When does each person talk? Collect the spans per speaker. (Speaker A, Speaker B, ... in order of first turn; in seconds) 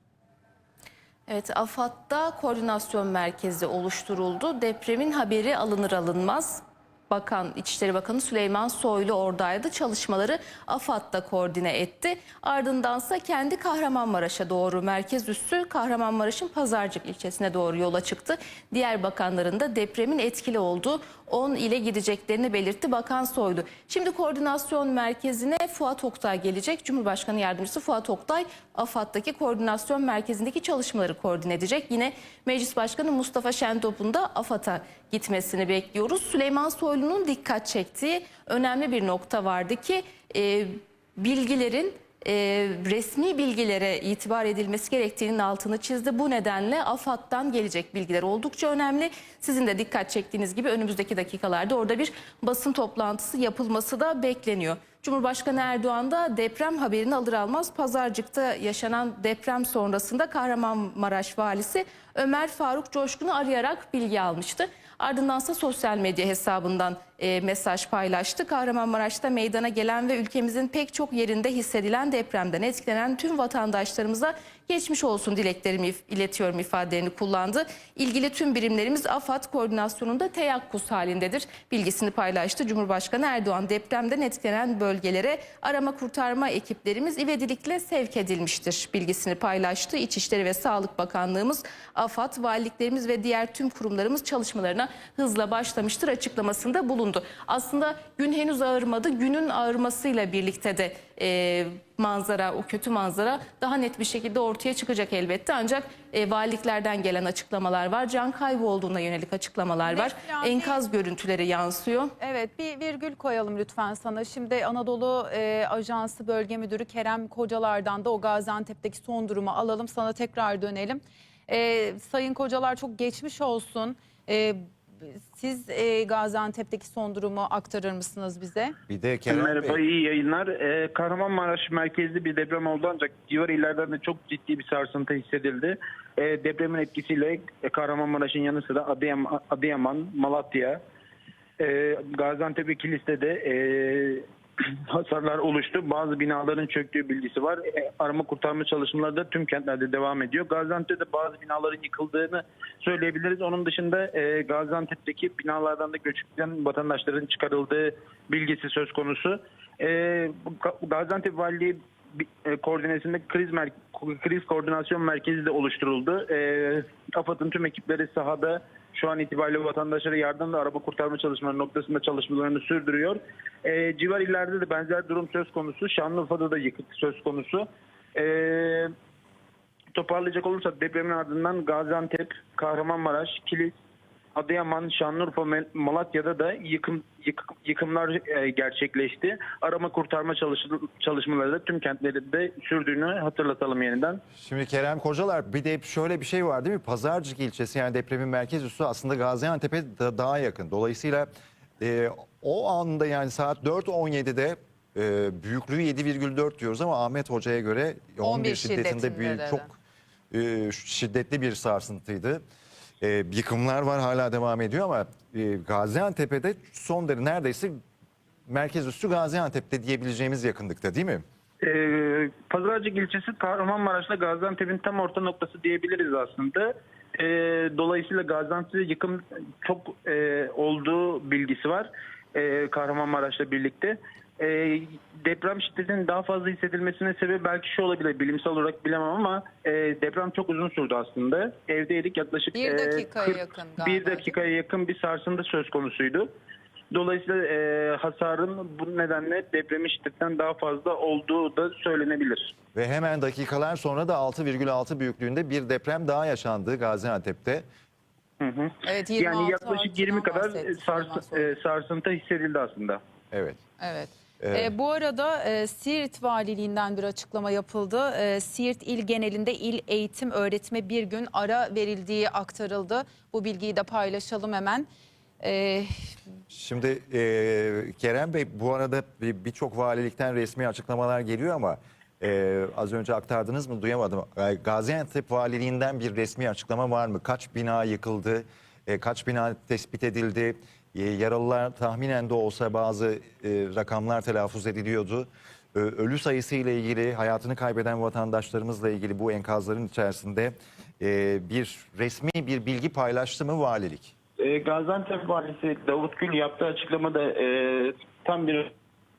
Speaker A: 1.3-112.1
Speaker B: 109.8-110.8, 112.2-128.7, 208.2-209.7, 242.5-244.5, 258.8-261.6, 263.8-274.9, 275.4-275.9
Speaker C: 128.9-129.8, 194.4-209.8, 210.3-212.4, 213.0-217.8, 218.5-221.2, 252.7-257.6, 263.3-263.6, 264.4-264.7, 276.5-304.1
Speaker D: 129.3-140.8, 141.6-144.2, 144.9-178.9, 179.9-183.7, 184.3-194.2, 221.6-246.3, 246.9-252.5, 258.4-263.0, 304.4-308.7